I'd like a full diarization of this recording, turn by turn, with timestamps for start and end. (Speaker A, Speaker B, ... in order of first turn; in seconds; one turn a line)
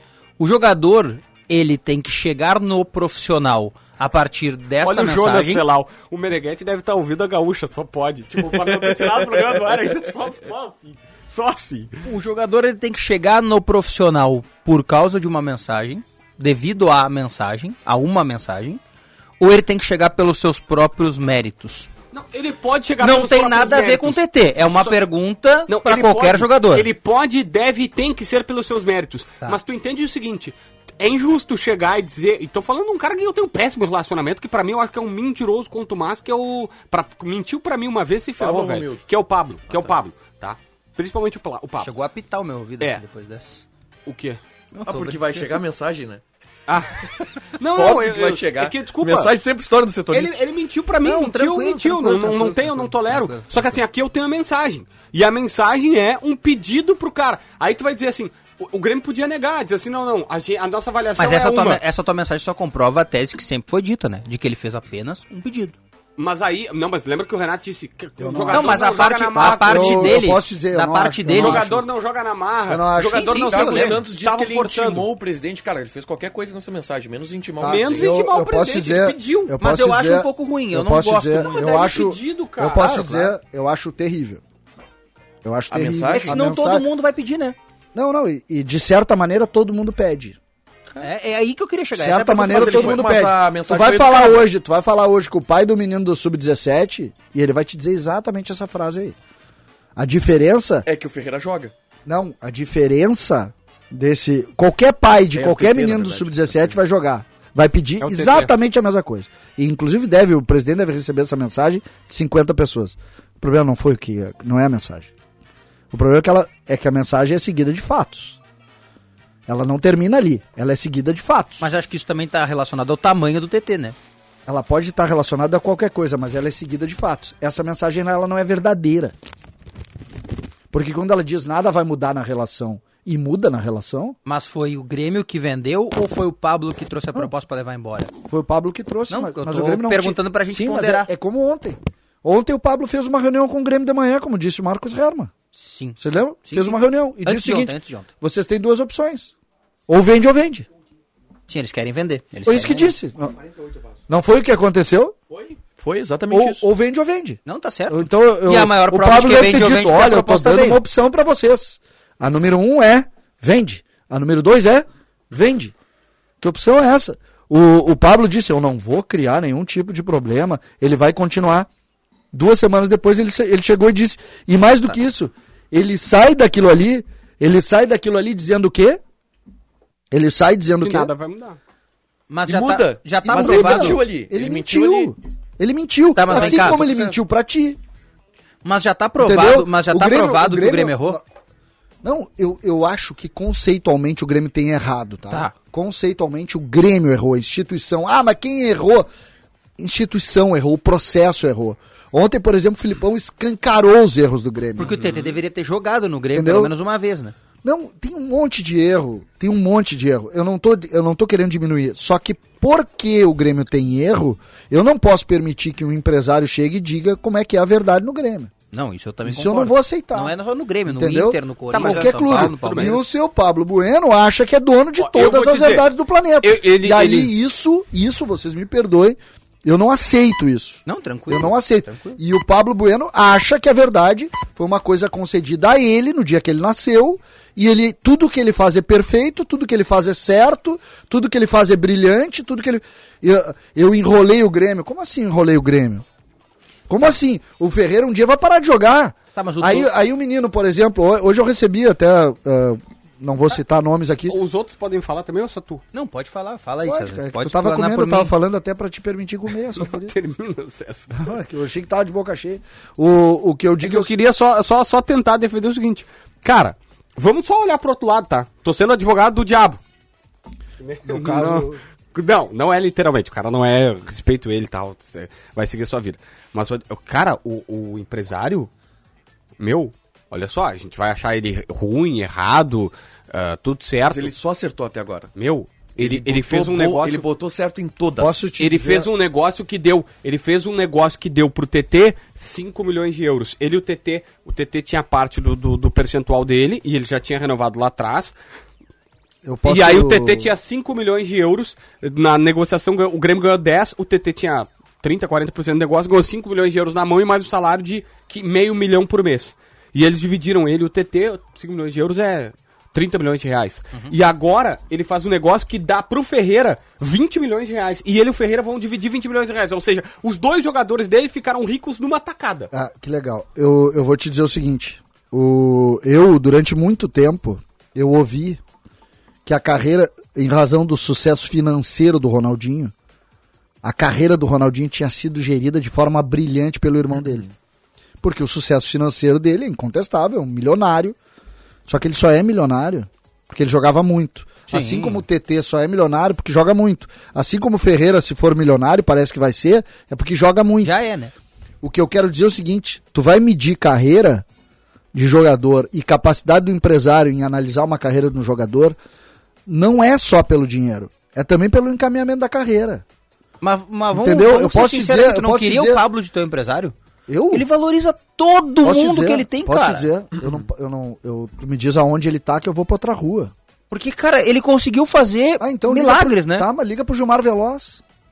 Speaker A: 0.4-5.6
Speaker B: 4.8-12.0
Speaker C: 8.8-9.4
Speaker A: 12.0-18.8
Speaker A: 19.4-21.9
Speaker B: 22.1-24.2
Speaker A: 23.0-26.9
Speaker B: 25.7-41.9
Speaker C: 38.4-39.0
Speaker A: 41.8-43.6
Speaker B: 44.1-44.4
Speaker A: 44.7-45.6
Speaker C: 44.9-46.2
Speaker B: 46.7-49.4
Speaker C: 47.8-50.3
Speaker B: 50.1-61.8
Speaker A: 51.0-53.7
Speaker A: 61.2-65.8
Speaker B: 66.2-70.2
Speaker D: 68.2-71.9
Speaker A: 68.5-71.7
Speaker B: 71.3-75.1
Speaker D: 72.7-74.0
Speaker A: 73.1-73.6
Speaker C: 73.5-78.2
Speaker D: 77.6-84.4
Speaker B: 77.6-79.5
Speaker A: 79.6-81.7
Speaker B: 81.4-83.0
Speaker C: 82.8-83.3
Speaker D: 85.4-86.9
Speaker C: 85.7-86.4
Speaker A: 86.1-87.6
Speaker D: 87.9-90.4
Speaker A: 91.0-93.0
Speaker D: 92.0-99.2
Speaker C: 92.5-94.5
Speaker D: 100.0-100.9
Speaker C: 100.9-101.7
Speaker D: 102.1-115.1
Speaker C: 105.3-106.8
Speaker B: 108.0-108.5
Speaker D: 115.9-118.4
Speaker D: 119.5-121.7
Speaker A: 121.6-124.0
Speaker D: 124.5-129.2
Speaker D: 130.7-134.2
Speaker A: 134.3-138.1
Speaker D: 138.3-145.3
Speaker A: 139.1-141.1
Speaker A: 145.5-148.1
Speaker D: 146.0-149.3
Speaker D: 149.9-150.7
Speaker A: 151.5-152.9
Speaker D: 152.4-153.4
Speaker D: 154.1-155.2
Speaker C: 155.3-156.7
Speaker D: 156.3-165.7
Speaker A: 157.5-160.8
Speaker D: 166.4-171.7
Speaker D: 172.3-179.0
Speaker D: 180.1-181.1
Speaker B: 180.8-181.6
Speaker A: 182.3-184.0
Speaker C: 182.5-185.1
Speaker D: 183.3-187.8
Speaker A: 186.2-187.1
Speaker A: 188.6-191.2
Speaker D: 189.2-191.2
Speaker D: 192.0-199.1
Speaker D: 199.8-205.0
Speaker A: 204.8-207.4
Speaker D: 206.3-206.7
Speaker D: 207.6-218.5
Speaker A: 218.7-223.0
Speaker D: 219.2-220.3
Speaker D: 220.9-246.1
Speaker B: 221.7-223.0
Speaker B: 225.0-225.9
Speaker B: 226.4-227.3
Speaker A: 230.9-232.2
Speaker D: 246.9-254.4
Speaker A: 249.3-249.9
Speaker B: 254.3-255.8
Speaker A: 255.9-258.3
Speaker D: 256.9-260.1
Speaker B: 259.8-261.2
Speaker D: 261.1-264.1
Speaker B: 263.8-269.8
Speaker B: 270.8-278.7
Speaker D: 271.1-271.8
Speaker B: 279.6-284.4
Speaker C: 284.1-285.3
Speaker B: 285.4-287.3
Speaker C: 286.0-288.5
Speaker D: 288.2-289.1
Speaker B: 288.6-298.3
Speaker D: 299.4-300.5
Speaker B: 299.7-322.7
Speaker D: 322.7-328.6
Speaker D: 329.5-332.9
Speaker D: 333.8-337.5
Speaker D: 338.2-341.2
Speaker D: 341.9-350.9
Speaker A: 344.7-345.2
Speaker A: 350.8-351.3
Speaker D: 351.8-354.4
Speaker D: 355.1-359.0
Speaker D: 359.7-363.0
Speaker A: 363.6-366.9
Speaker D: 364.1-366.0
Speaker D: 367.3-367.7
Speaker A: 367.5-370.1
Speaker D: 368.8-373.5
Speaker A: 373.9-376.7
Speaker D: 375.6-378.0